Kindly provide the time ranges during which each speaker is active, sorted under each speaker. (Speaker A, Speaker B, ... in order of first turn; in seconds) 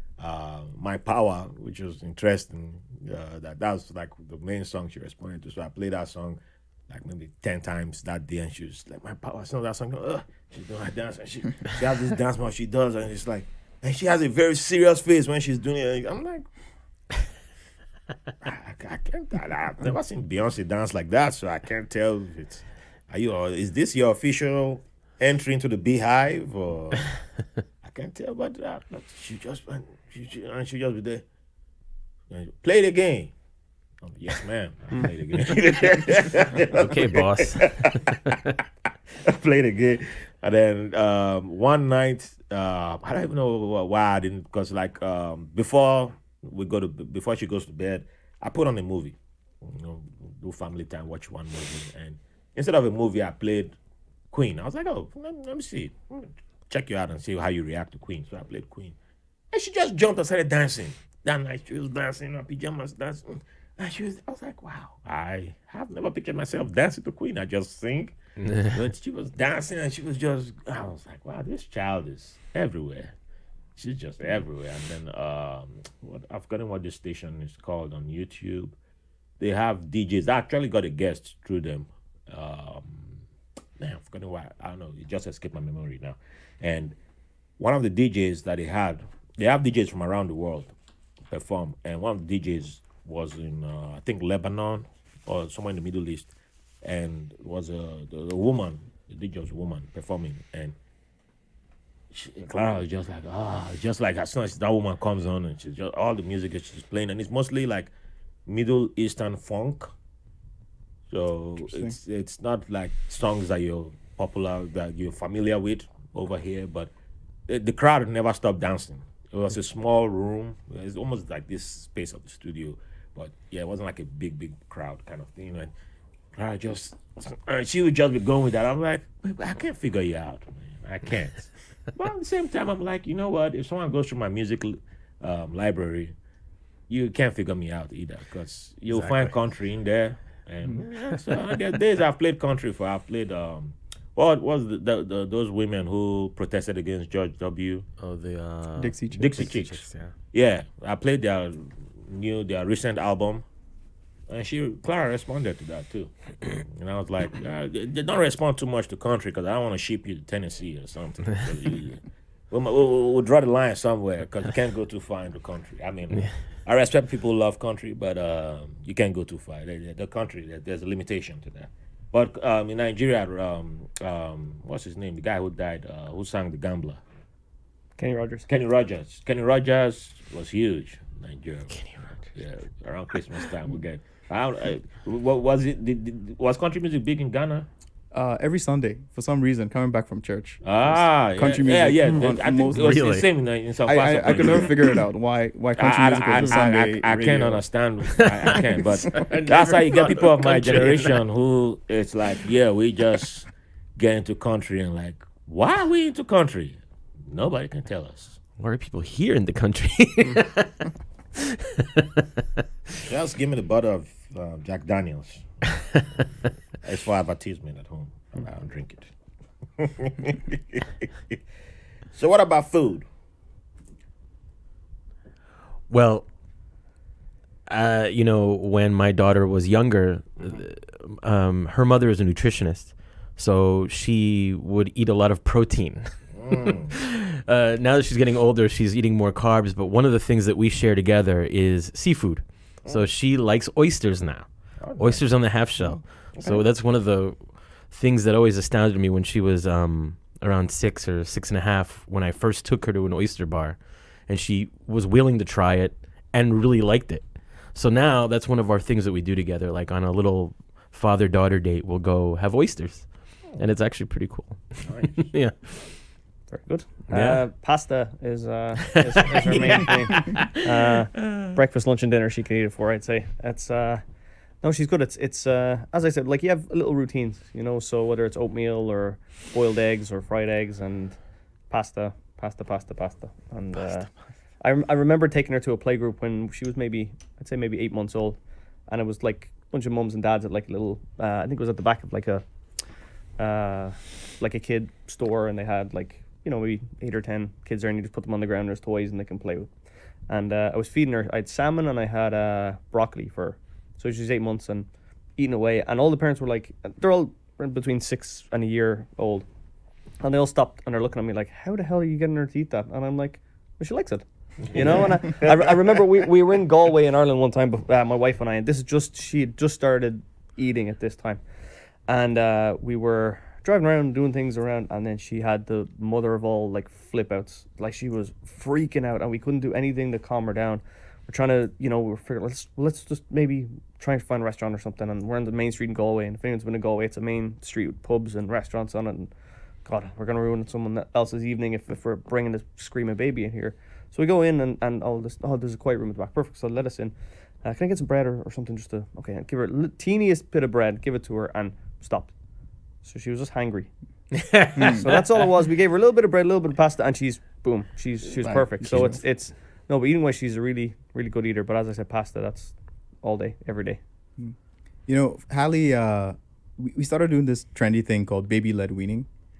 Speaker A: 0.2-16.5, 18.4-27.1, 27.8-31.2, 32.3-33.3, 34.0-38.4, 39.2-53.8, 54.3-59.0, 59.5-73.1, 73.8-78.8, 79.4-83.2, 83.8-87.0, 87.6-90.7, 91.3-96.3, 96.8-100.7, 102.1-107.9, 108.5-109.9, 111.1-116.9, 117.5-125.7, 126.3-136.1, 136.9-147.8, 149.1-153.4, 154.3-177.0, 178.5-181.7, 182.3-187.7, 190.6-194.9, 195.8-208.4, 213.0-215.5, 216.8-219.1, 219.8-221.4, 222.1-223.1, 236.3-236.9, 244.8-245.2, 246.4-246.6, 264.8-265.3, 269.4-269.9, 314.6-316.0
Speaker B: 36.7-38.4, 68.4-68.7, 138.9-139.3, 148.0-150.1, 181.7-182.3, 192.7-193.3, 199.1-201.2, 208.6-210.8, 211.4-212.2, 225.9-226.3, 227.7-266.0, 267.1-267.4, 269.1-270.5, 354.4-355.2
Speaker C: 111.6-112.0, 148.8-149.5, 188.1-193.0, 193.9-197.6, 354.8-355.0, 358.4-359.2, 365.1-369.3
Speaker D: 178.0-178.4, 266.5-274.0, 274.6-281.2, 281.7-292.4, 293.4-299.7, 300.3-309.5, 310.2-321.4, 322.0-339.3, 339.8-352.3, 353.0-353.9, 354.8-364.0